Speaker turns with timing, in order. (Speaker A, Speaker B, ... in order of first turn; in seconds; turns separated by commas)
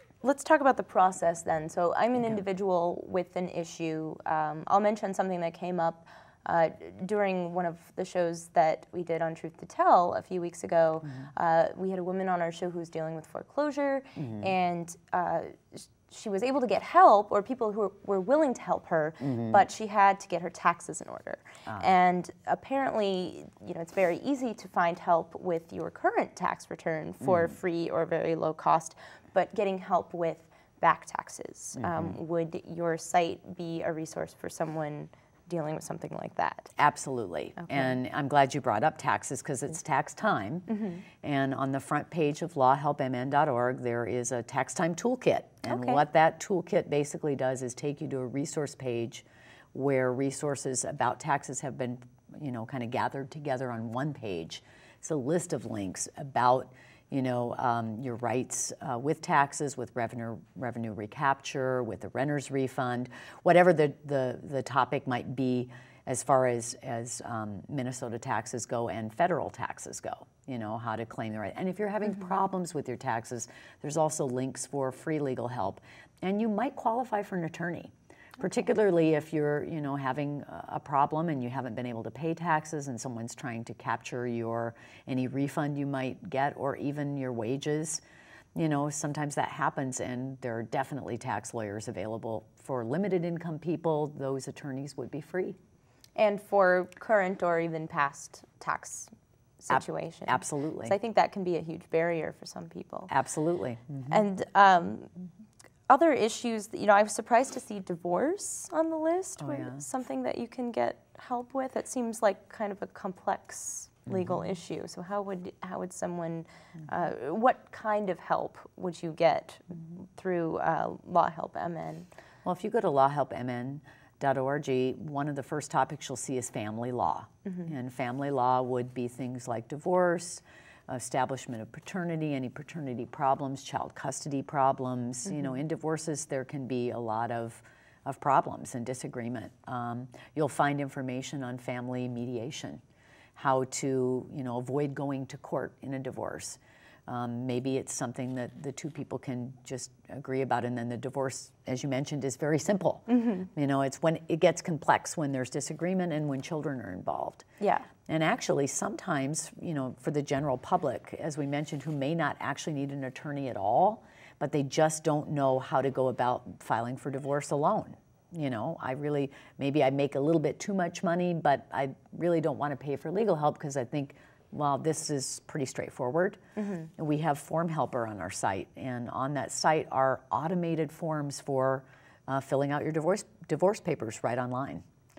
Speaker A: 0.2-36.7, Speaker B: 14.2-14.5, Speaker B: 19.2-19.6, Speaker B: 27.2-27.5, Speaker B: 31.8-32.2, Speaker B: 36.8-88.0, Speaker A: 37.6-37.9, Speaker A: 40.7-41.0, Speaker A: 45.7-46.0, Speaker B: 88.5-95.6, Speaker A: 96.2-103.1, Speaker B: 99.7-100.9, Speaker B: 103.1-104.2, Speaker A: 104.1-105.1, Speaker A: 105.9-122.1, Speaker B: 109.4-109.8, Speaker B: 114.1-114.4, Speaker B: 122.4-142.8, Speaker B: 143.3-157.4, Speaker A: 153.1-153.4, Speaker A: 157.6-157.9, Speaker B: 158.1-184.8, Speaker A: 176.6-176.9